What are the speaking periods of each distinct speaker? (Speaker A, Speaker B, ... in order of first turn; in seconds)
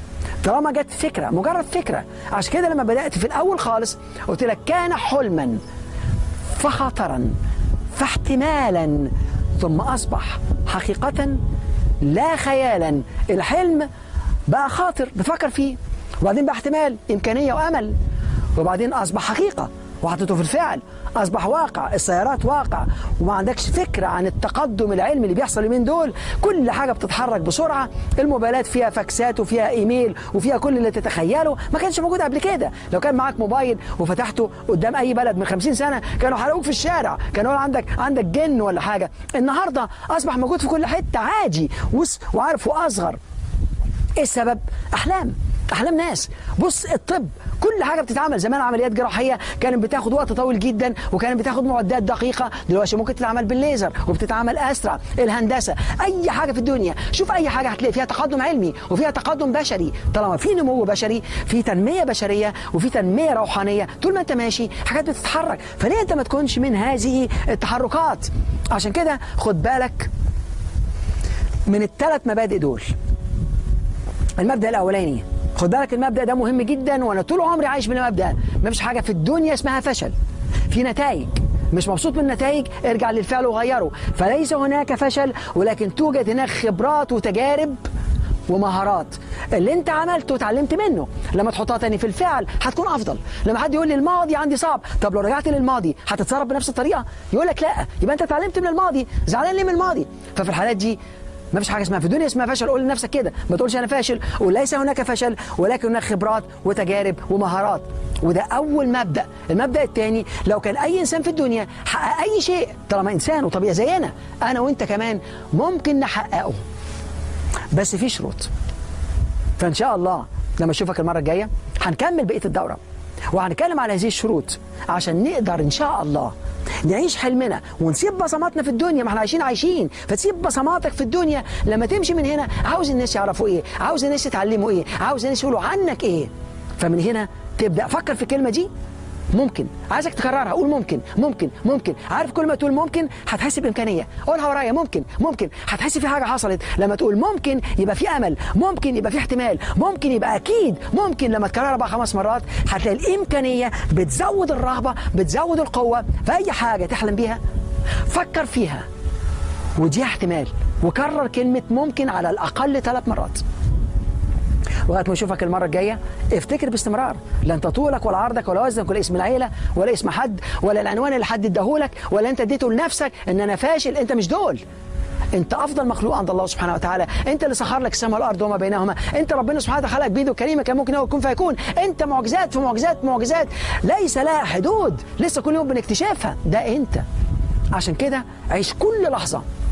Speaker A: 0.4-5.6, 6.5-7.3, 7.9-11.4, 12.0-13.9, 14.5-17.9, 18.6-43.2, 44.2-70.1, 71.7-72.9, 74.4-80.1, 80.7-87.8, 88.5-101.0, 101.5-116.6, 117.7-118.5, 119.6-122.8, 123.3-126.3, 126.8-138.7, 139.3-157.4, 158.1-158.8, 159.8-163.4, 164.9-174.6, 175.3-187.0, 187.7-189.4